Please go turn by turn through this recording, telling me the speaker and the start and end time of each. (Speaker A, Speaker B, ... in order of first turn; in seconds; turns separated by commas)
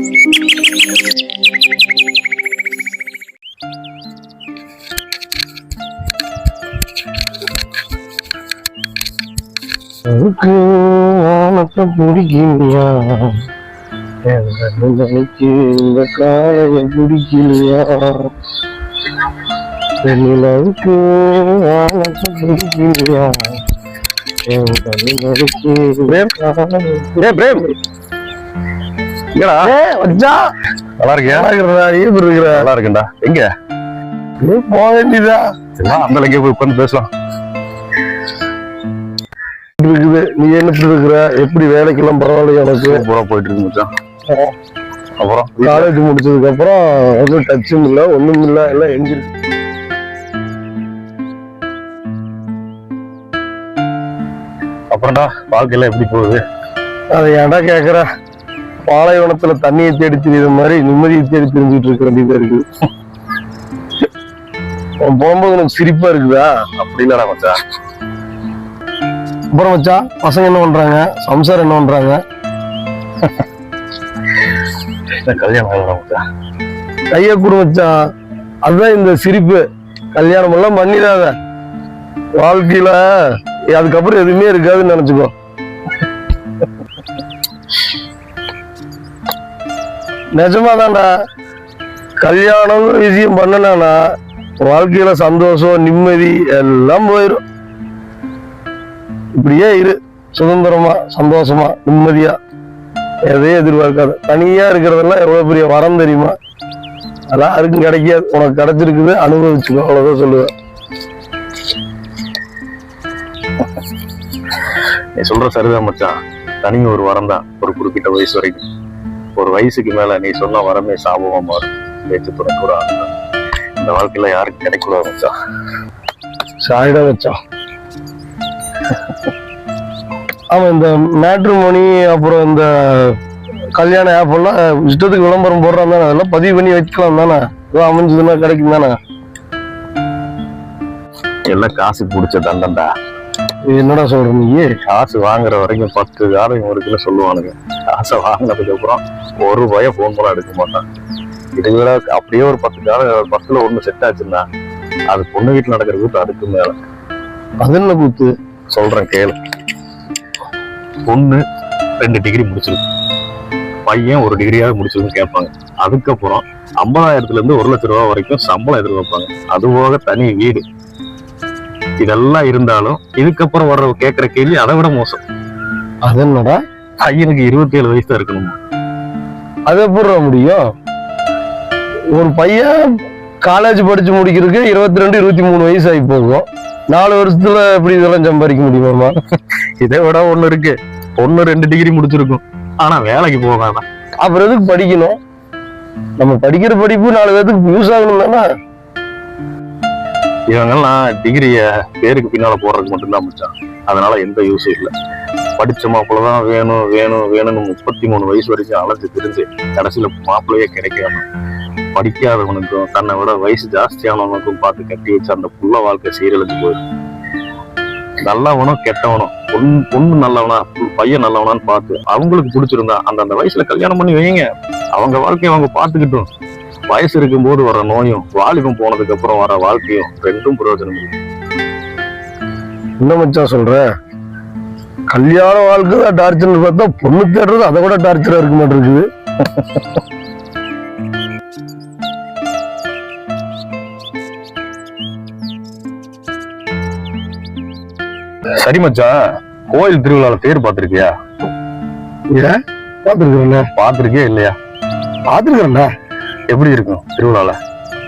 Speaker A: 10.1-13.4, Speaker A: 14.3-18.3, Speaker A: 20.0-23.6, Speaker A: 24.5-26.2, Speaker B: 26.1-27.0, Speaker A: 27.1-27.8, Speaker B: 29.4-29.7, Speaker A: 29.6-30.5, Speaker B: 31.0-31.5, Speaker A: 31.3-32.7, Speaker B: 32.5-33.5, Speaker A: 34.4-35.4, Speaker B: 35.8-37.1, Speaker A: 39.8-43.0, Speaker B: 42.9-43.9, Speaker B: 45.2-45.9, Speaker A: 45.6-49.3, Speaker B: 54.9-56.4, Speaker A: 57.1-58.1, Speaker A: 58.9-62.6, Speaker A: 65.0-66.5, Speaker B: 66.8-67.6, Speaker A: 69.6-72.2, Speaker B: 75.2-76.2, Speaker A: 77.1-77.9, Speaker A: 78.7-79.6, Speaker A: 80.2-81.3, Speaker A: 82.4-83.0, Speaker A: 83.7-85.3, Speaker A: 90.4-91.1, Speaker A: 92.2-94.0, Speaker A: 94.6-97.4, Speaker A: 99.4-102.3, Speaker A: 103.3-106.3, Speaker A: 107.3-110.5, Speaker B: 115.2-118.6, Speaker B: 119.4-123.1, Speaker B: 123.8-125.3, Speaker A: 126.6-127.4, Speaker A: 130.5-133.2, Speaker A: 133.8-138.9, Speaker B: 141.5-142.9, Speaker A: 143.7-144.7, Speaker B: 144.9-150.8, Speaker B: 151.6-154.4, Speaker B: 155.1-156.8, Speaker A: 157.6-158.3, Speaker B: 158.7-159.4, Speaker B: 161.1-161.4, Speaker B: 162.0-162.8, Speaker B: 163.9-170.6, Speaker B: 172.0-175.2, Speaker A: 176.1-176.6, Speaker B: 177.0-178.6, Speaker A: 179.7-180.6, Speaker A: 182.1-189.1, Speaker B: 189.8-193.8, Speaker A: 194.2-195.2, Speaker A: 196.2-198.4, Speaker B: 200.5-204.9, Speaker B: 205.6-211.2, Speaker B: 211.9-216.8, Speaker B: 218.2-226.3, Speaker B: 226.9-231.1, Speaker A: 233.0-233.8, Speaker A: 235.1-239.1, Speaker B: 248.6-249.1, Speaker B: 249.7-251.1, Speaker A: 252.3-253.7, Speaker B: 253.8-254.6, Speaker A: 255.3-255.9, Speaker B: 256.5-257.6